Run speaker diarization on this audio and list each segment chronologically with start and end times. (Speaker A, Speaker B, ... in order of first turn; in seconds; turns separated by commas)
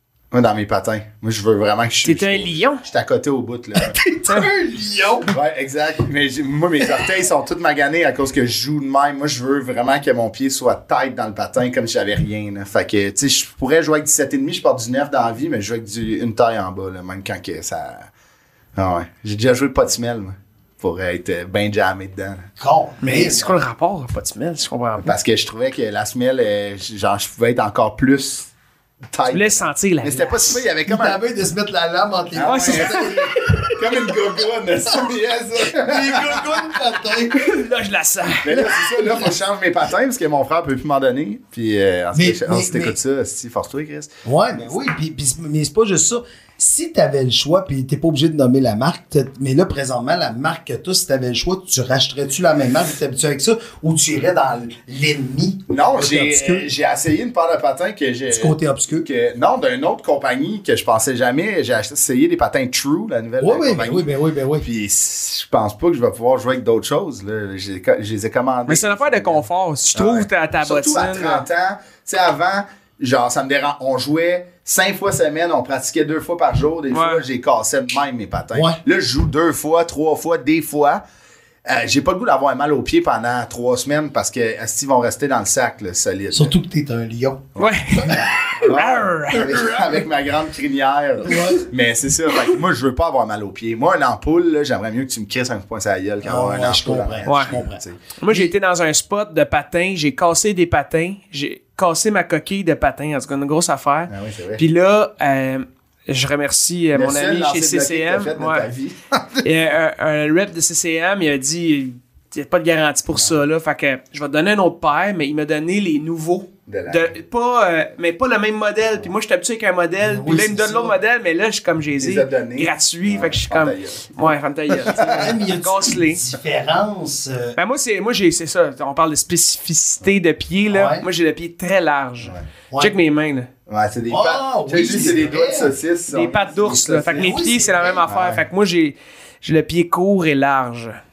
Speaker A: 0.3-4.0, Speaker B: 2.0-2.8, Speaker C: 3.8-5.4, Speaker A: 5.3-18.1, Speaker A: 18.8-22.5, Speaker C: 22.6-23.6, Speaker B: 23.0-25.1, Speaker A: 25.0-28.5, Speaker A: 29.1-31.2, Speaker B: 29.3-30.6, Speaker C: 30.9-33.7, Speaker A: 32.3-36.7, Speaker B: 32.5-33.8, Speaker C: 35.6-37.7, Speaker B: 37.3-38.5, Speaker A: 38.4-44.1, Speaker C: 38.5-39.3, Speaker C: 42.1-43.0, Speaker C: 44.2-56.7, Speaker A: 55.7-64.1, Speaker C: 58.3-59.1, Speaker C: 63.4-64.7, Speaker A: 64.6-81.0, Speaker B: 68.7-71.5, Speaker B: 76.9-77.2, Speaker C: 78.5-78.8, Speaker A: 81.7-86.5, Speaker C: 86.3-88.7, Speaker A: 87.6-87.8, Speaker B: 87.6-89.8, Speaker A: 88.6-98.0, Speaker C: 89.3-89.9, Speaker C: 91.2-91.7, Speaker C: 96.2-98.5, Speaker B: 97.3-97.5, Speaker B: 98.2-108.7, Speaker A: 104.1-104.6, Speaker A: 106.9-109.5, Speaker B: 109.4-126.2, Speaker A: 116.7-117.1, Speaker C: 120.0-121.0, Speaker A: 122.0-125.4, Speaker C: 124.9-127.6, Speaker B: 127.6-133.5, Speaker C: 130.7-131.1, Speaker A: 133.7-137.1, Speaker C: 134.1-135.7, Speaker B: 136.1-141.0, Speaker C: 136.8-138.0, Speaker A: 138.1-138.4